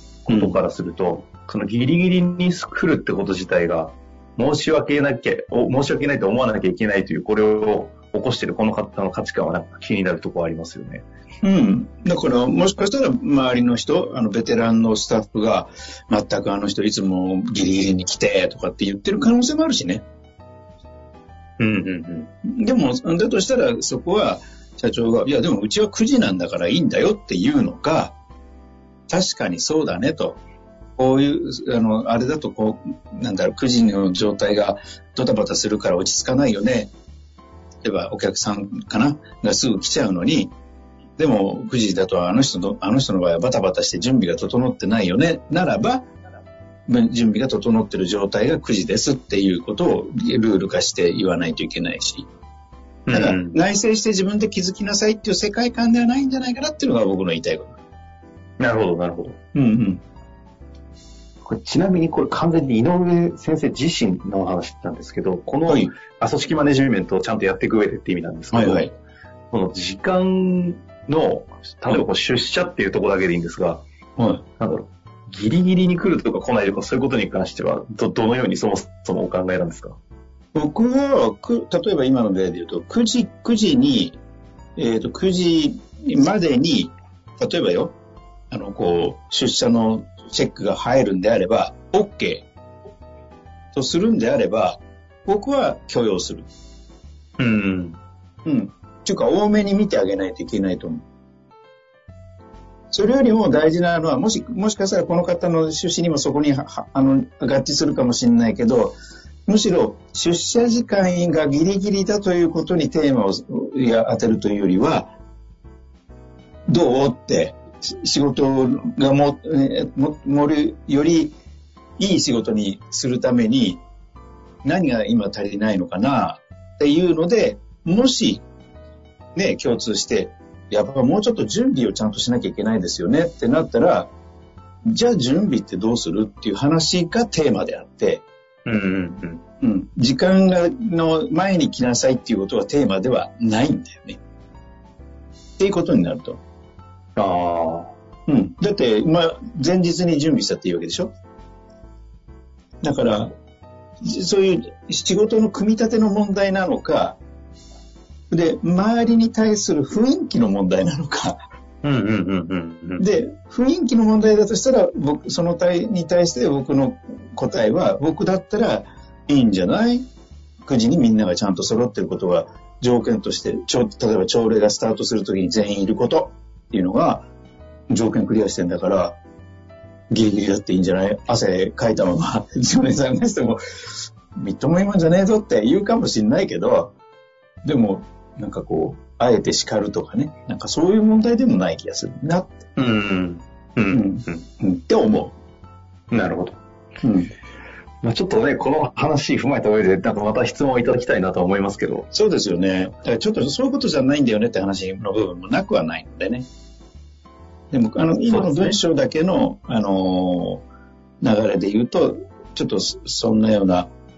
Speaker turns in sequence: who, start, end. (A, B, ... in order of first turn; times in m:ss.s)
0:00.3-0:11.0 A
0:00.3-0:00.6 B
0:11.4-0:20.0 B
0:21.6-0:22.3 A
0:22.4-0:28.1 B
0:29.1-0:30.4 B
0:31.0-0:36.9 B
0:37.8-0:40.5 B
0:41.2-0:46.1 B
0:46.9-0:52.3 B
0:53.1-0:53.6 A
0:53.1-0:57.8 B
0:58.6-0:59.4 A
0:59.5-1:00.0 B
1:01.4-1:08.9 A
1:05.7-1:05.9 B
1:08.5-1:08.9 B
1:09.5-1:13.8 A
1:14.2-1:14.4 B
1:14.6-1:20.0 A
1:20.5-1:24.2 B
1:24.8-1:28.0 B
1:28.5-1:32.5 B
1:33.7-1:36.5 B
1:37.4-1:38.0 A
1:38.4-1:41.0 B
1:42.9-1:55.1 B
1:56.7-2:01.4 B
2:02.0-2:03.8 B
2:04.6-2:08.4 B
2:09.4-2:14.1 B
2:14.8-2:18.2 B
2:18.7-2:19.4 A
2:19.6-2:24.2 B
2:25.6-2:26.4 B
2:27.2-2:27.9 A
2:28.3-2:31.1 B
2:32.8-2:33.3 B
2:34.0-2:37.2 B
2:38.3-2:41.4 B
2:41.8-2:43.0 A
2:43.0-2:50.1 B
2:50.6-2:57.3 B
2:57.9-2:59.2 B
3:00.1-3:03.6 B
3:04.4-3:06.9 B
3:07.6-3:12.7 B
3:12.8-3:14.4 A
3:13.9-3:15.4 B
3:16.1-3:16.6 A
3:17.0-3:17.3 B
3:18.0-3:22.1 A
3:22.1-3:26.5 B
3:27.7-3:30.6 B
3:28.3-3:28.8 A
3:31.2-3:33.9 B